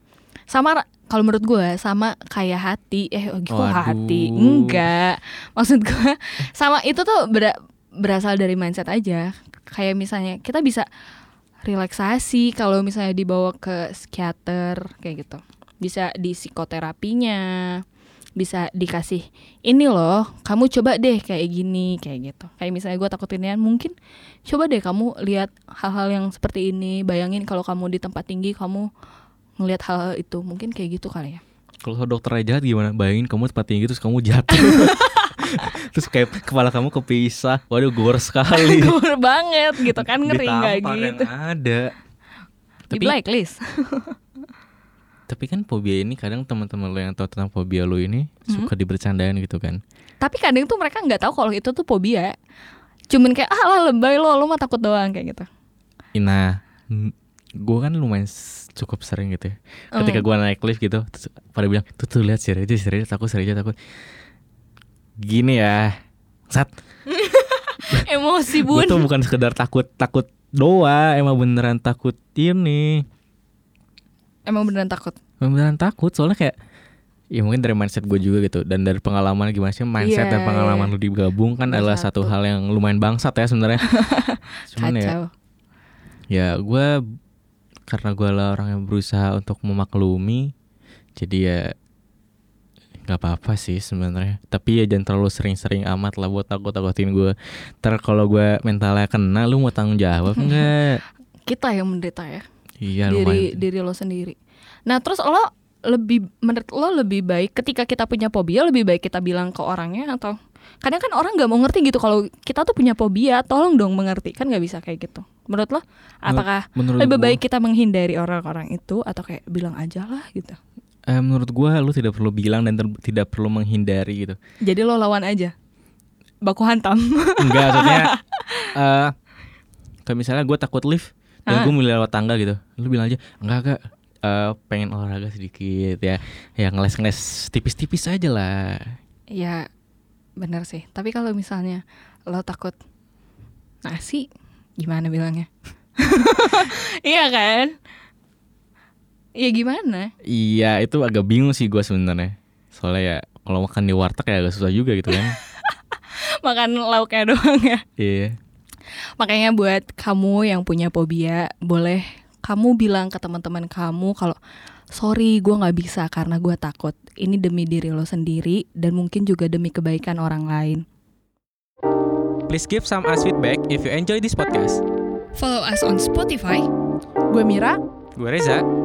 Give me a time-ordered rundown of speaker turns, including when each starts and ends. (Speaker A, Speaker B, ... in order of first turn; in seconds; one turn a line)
Speaker A: 0.5-10.8
Speaker B: 3.5-4.8
Speaker A: 11.7-17.8
Speaker A: 18.4-23.9
Speaker A: 24.5-28.9
Speaker A: 29.6-31.4
Speaker B: 31.8-38.9
Speaker A: 34.5-35.6
Speaker A: 38.5-41.3
Speaker B: 39.9-41.9
Speaker A: 42.9-44.1
Speaker B: 45.3-49.8
Speaker A: 50.2-52.3
Speaker A: 53.1-55.5
Speaker B: 56.1-63.7
Speaker A: 59.9-60.2
Speaker B: 65.2-66.0
Speaker A: 67.1-69.1
Speaker B: 68.6-73.0
Speaker A: 74.5-75.2
Speaker B: 75.4-76.5
Speaker B: 77.3-83.8
Speaker A: 80.0-80.9
Speaker A: 81.7-82.3
Speaker A: 83.8-85.3
Speaker B: 84.7-85.1
Speaker B: 86.3-87.0
Speaker B: 87.9-90.5
Speaker B: 91.2-91.7
Speaker B: 93.0-101.0
Speaker A: 100.3-100.7
Speaker A: 101.5-102.4
Speaker B: 102.8-103.5
Speaker A: 103.0-120.6
Speaker B: 116.3-117.4
Speaker B: 121.1-124.4
Speaker A: 124.6-125.5
Speaker A: 126.4-128.7
Speaker B: 127.4-128.1
Speaker B: 128.7-129.1
Speaker B: 130.1-139.0
Speaker A: 139.3-139.6
Speaker A: 140.4-142.8
Speaker A: 143.8-144.2
Speaker A: 144.8-147.7
Speaker A: 149.4-150.1
Speaker B: 150.2-155.3
Speaker A: 155.1-155.7
Speaker A: 156.4-157.8
Speaker B: 158.0-158.4
Speaker A: 159.2-164.4
Speaker A: 164.9-170.8
Speaker B: 172.5-174.8
Speaker A: 175.3-176.7
Speaker A: 177.3-177.8
Speaker B: 178.2-178.7